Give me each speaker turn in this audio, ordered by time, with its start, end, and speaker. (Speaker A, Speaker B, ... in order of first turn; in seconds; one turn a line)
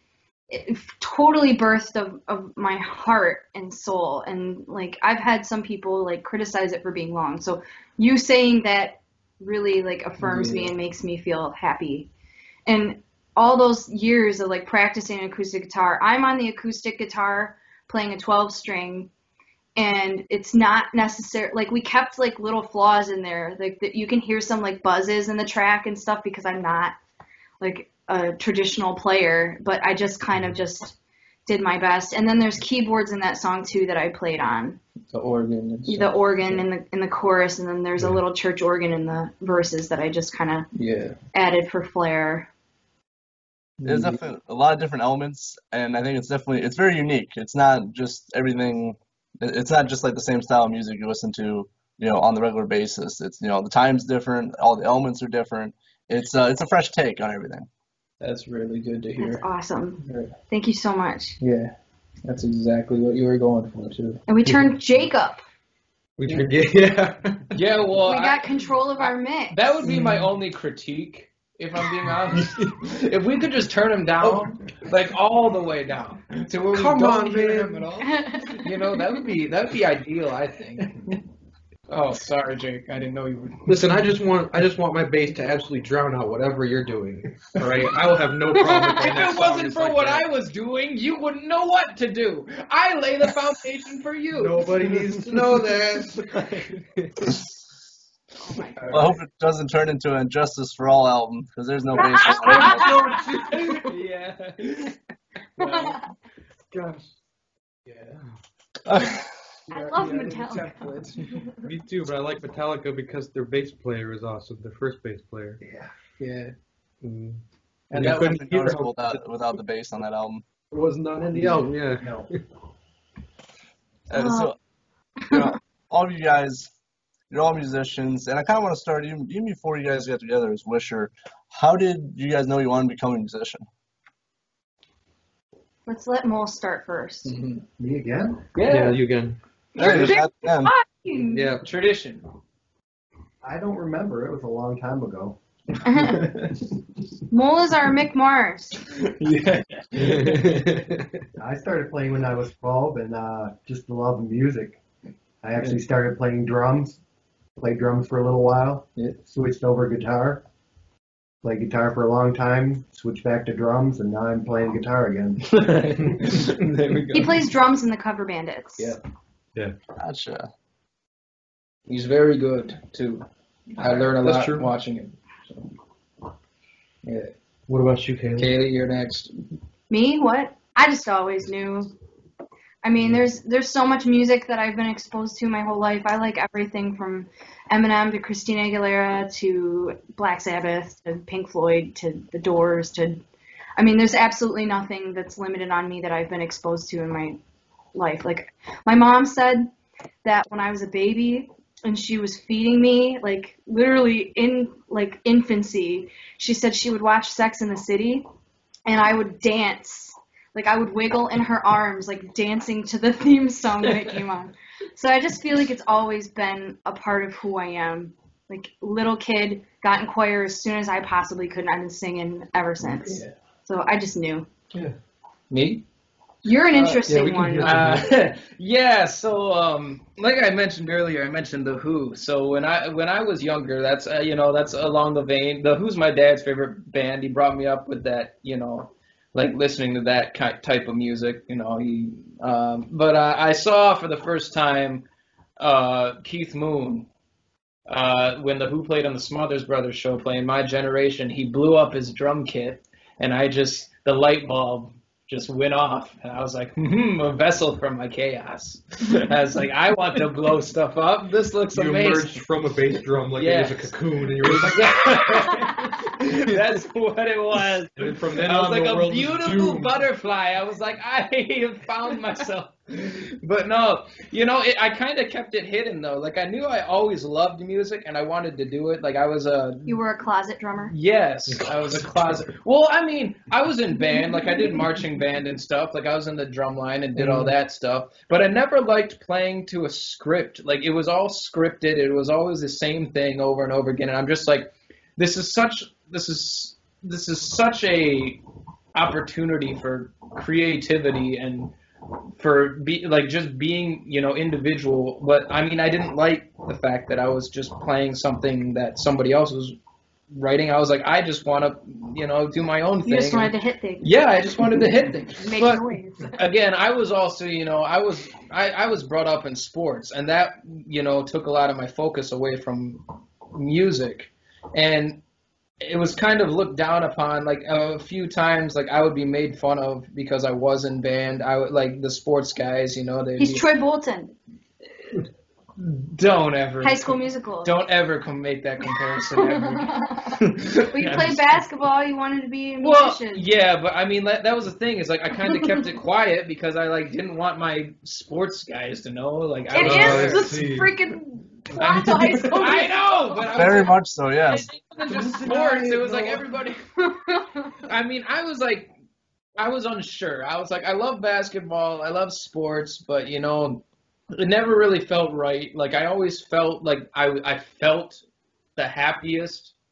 Speaker A: 0.5-12.1
Speaker B: 10.2-10.7
Speaker A: 12.7-19.1
Speaker A: 19.8-26.9
Speaker A: 27.6-30.9
Speaker A: 31.4-34.8
Speaker B: 35.1-36.6
Speaker A: 35.9-40.7
Speaker B: 40.8-41.2
Speaker A: 41.3-42.5
Speaker B: 43.8-44.2
Speaker C: 43.9-57.7
Speaker B: 58.2-59.4
Speaker A: 59.2-61.4
Speaker B: 60.0-60.3
Speaker B: 61.4-61.7
Speaker B: 62.2-64.2
Speaker A: 64.3-65.4
Speaker D: 66.2-67.6
Speaker B: 67.5-81.2
Speaker A: 68.0-69.9
Speaker D: 69.8-70.3
Speaker D: 72.1-72.8
Speaker D: 74.2-74.5
Speaker D: 76.7-78.1
Speaker A: 78.0-79.0
Speaker B: 81.9-83.9
Speaker D: 83.7-90.3
Speaker B: 87.5-88.1
Speaker A: 88.5-89.2
Speaker B: 88.9-96.8
Speaker D: 94.3-97.4
Speaker A: 98.4-99.1
Speaker B: 98.6-99.1
Speaker C: 98.9-102.8
Speaker A: 102.0-103.5
Speaker D: 102.2-103.9
Speaker B: 102.3-105.0
Speaker B: 105.6-106.0
Speaker A: 105.6-106.1
Speaker D: 106.7-107.1
Speaker B: 107.9-108.2
Speaker C: 108.9-109.3
Speaker B: 109.7-111.5
Speaker A: 109.7-111.0
Speaker D: 111.6-115.6
Speaker E: 115.6-115.9
Speaker B: 116.2-116.5
Speaker D: 117.0-119.2
Speaker B: 117.9-118.4
Speaker C: 117.9-120.5
Speaker D: 120.7-122.4
Speaker E: 122.0-122.3
Speaker C: 124.1-124.5
Speaker A: 124.1-124.5
Speaker C: 125.3-126.7
Speaker C: 127.3-133.6
Speaker A: 135.9-137.3
Speaker B: 137.2-137.6
Speaker E: 137.8-138.4
Speaker B: 138.5-139.0
Speaker D: 138.7-139.9
Speaker A: 139.8-141.5
Speaker C: 139.8-140.7
Speaker D: 141.2-141.6
Speaker B: 141.6-142.2
Speaker E: 143.4-145.4
Speaker A: 145.8-146.3
Speaker B: 145.9-146.6
Speaker A: 147.3-148.8
Speaker B: 148.8-150.7
Speaker D: 150.0-151.2
Speaker E: 151.4-154.8
Speaker E: 155.4-157.0
Speaker E: 157.6-160.4
Speaker E: 161.4-165.6
Speaker B: 165.4-167.5
Speaker A: 167.1-169.0
Speaker C: 170.0-170.5
Speaker B: 171.9-175.7
Speaker D: 173.8-174.7
Speaker B: 177.0-177.3
Speaker D: 177.7-178.5
Speaker B: 178.4-179.3
Speaker A: 179.9-181.9
Speaker A: 182.8-193.2
Speaker A: 193.8-197.4
Speaker A: 197.9-199.7
Speaker A: 200.2-208.2
Speaker A: 208.9-224.5
Speaker B: 222.8-223.3
Speaker B: 225.5-225.8
Speaker A: 226.4-227.8
Speaker B: 226.7-227.0
Speaker D: 227.0-228.2
Speaker B: 227.6-245.0
Speaker B: 245.6-247.1
Speaker B: 247.9-262.4
Speaker D: 261.7-265.2
Speaker B: 263.4-280.0
Speaker D: 266.5-266.8
Speaker D: 268.0-269.9
Speaker A: 279.9-280.9
Speaker B: 280.9-298.4
Speaker D: 281.5-282.4
Speaker D: 287.1-287.5
Speaker B: 298.9-301.8
Speaker B: 302.4-309.8
Speaker B: 310.3-325.2
Speaker A: 313.1-314.1
Speaker A: 315.4-316.4
Speaker B: 325.8-333.7
Speaker A: 333.4-334.3
Speaker B: 335.8-341.6
Speaker A: 336.8-337.8
Speaker A: 339.3-343.5
Speaker B: 342.8-350.6
Speaker A: 349.7-353.7
Speaker D: 349.8-351.0
Speaker D: 351.7-352.7
Speaker B: 352.5-356.8
Speaker C: 353.5-354.7
Speaker D: 355.1-356.5
Speaker A: 357.0-357.7
Speaker B: 357.8-358.9
Speaker B: 359.6-368.2
Speaker B: 368.8-369.7